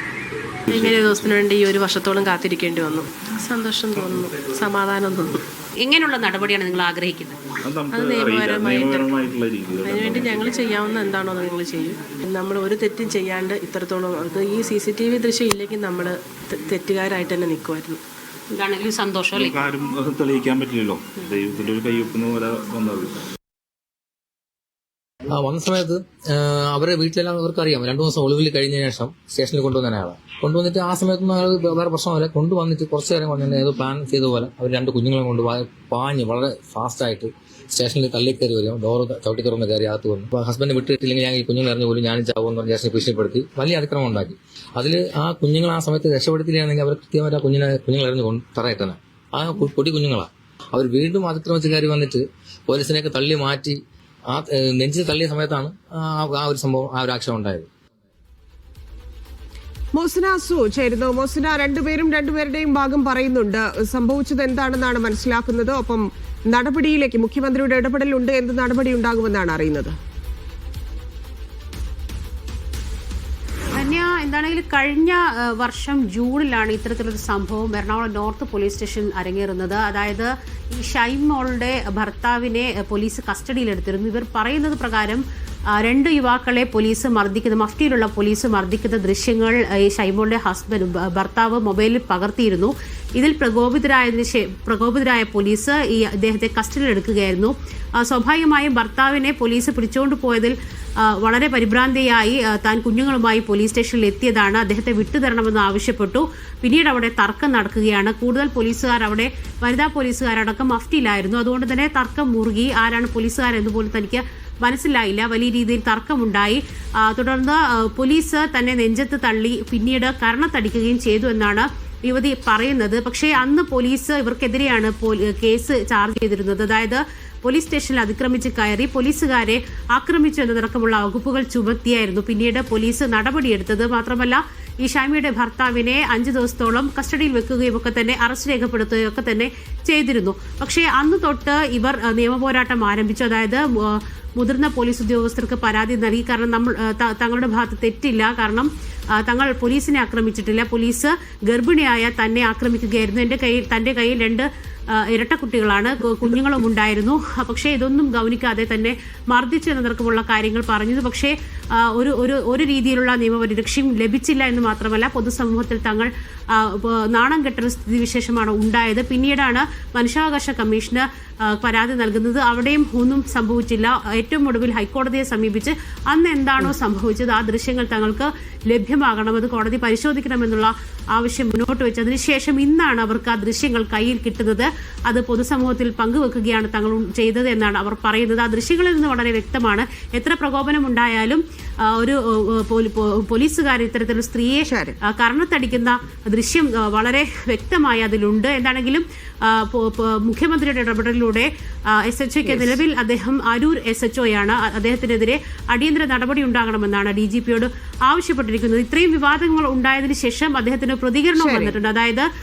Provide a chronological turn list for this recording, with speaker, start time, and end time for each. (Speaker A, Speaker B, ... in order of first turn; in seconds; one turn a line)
Speaker A: 0.7-1.3
Speaker B: 0.8-5.3
Speaker C: 5.8-7.4
Speaker A: 7.6-10.5
Speaker B: 7.9-9.1
Speaker B: 9.8-18.0
Speaker C: 18.5-19.6
Speaker A: 19.3-23.2
Speaker D: 25.3-53.8
Speaker D: 54.3-57.7
Speaker E: 59.9-69.9
Speaker C: 73.7-85.2
Speaker C: 85.8-100.5
Speaker C: 101.1-212.2
Speaker E: 194.7-194.9
Speaker E: 211.3-211.8